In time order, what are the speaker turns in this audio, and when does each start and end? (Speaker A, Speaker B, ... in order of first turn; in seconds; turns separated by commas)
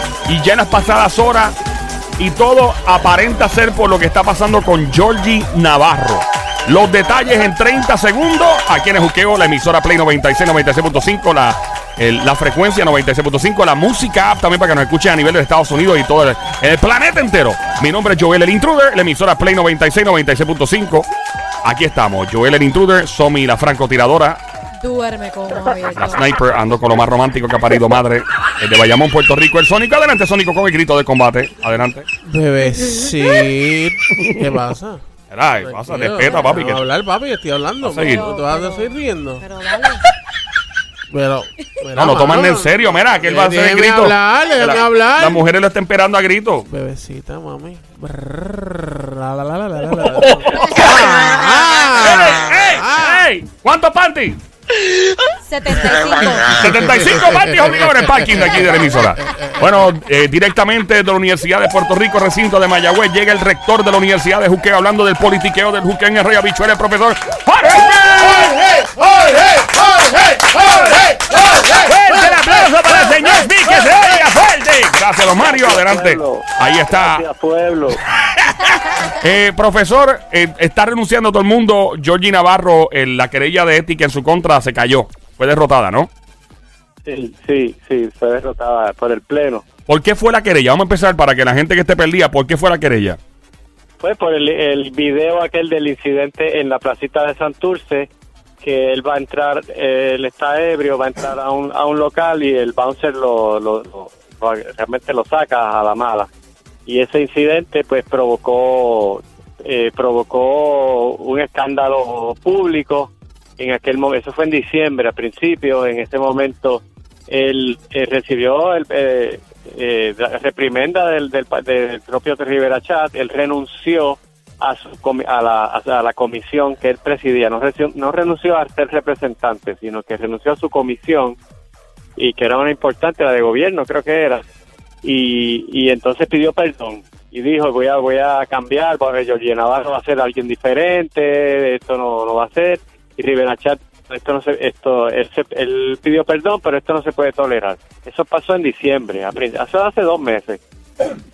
Speaker A: 0.3-1.6, Speaker A: 2.2-21.1, Speaker A: 21.6-24.4, Speaker B: 24.8-26.2, Speaker A: 25.9-32.1, Speaker C: 32.2-35.0, Speaker A: 34.1-34.4, Speaker A: 35.3-36.8, Speaker C: 35.6-39.4, Speaker A: 37.8-38.2, Speaker B: 38.0-40.1, Speaker C: 41.1-45.5, Speaker A: 41.9-46.7, Speaker C: 46.7-53.2, Speaker A: 50.5-51.1, Speaker B: 51.0-51.6, Speaker A: 51.9-54.4, Speaker B: 55.4-56.7, Speaker A: 56.4-68.5, Speaker C: 56.9-59.9, Speaker C: 68.2-73.3, Speaker A: 71.3-77.2, Speaker D: 75.3-78.0, Speaker A: 78.1-86.1, Speaker D: 87.0-89.6, Speaker A: 89.9-93.2, Speaker D: 94.0-106.3, Speaker D: 106.8-131.4, Speaker D: 132.2-134.4, Speaker D: 135.0-150.6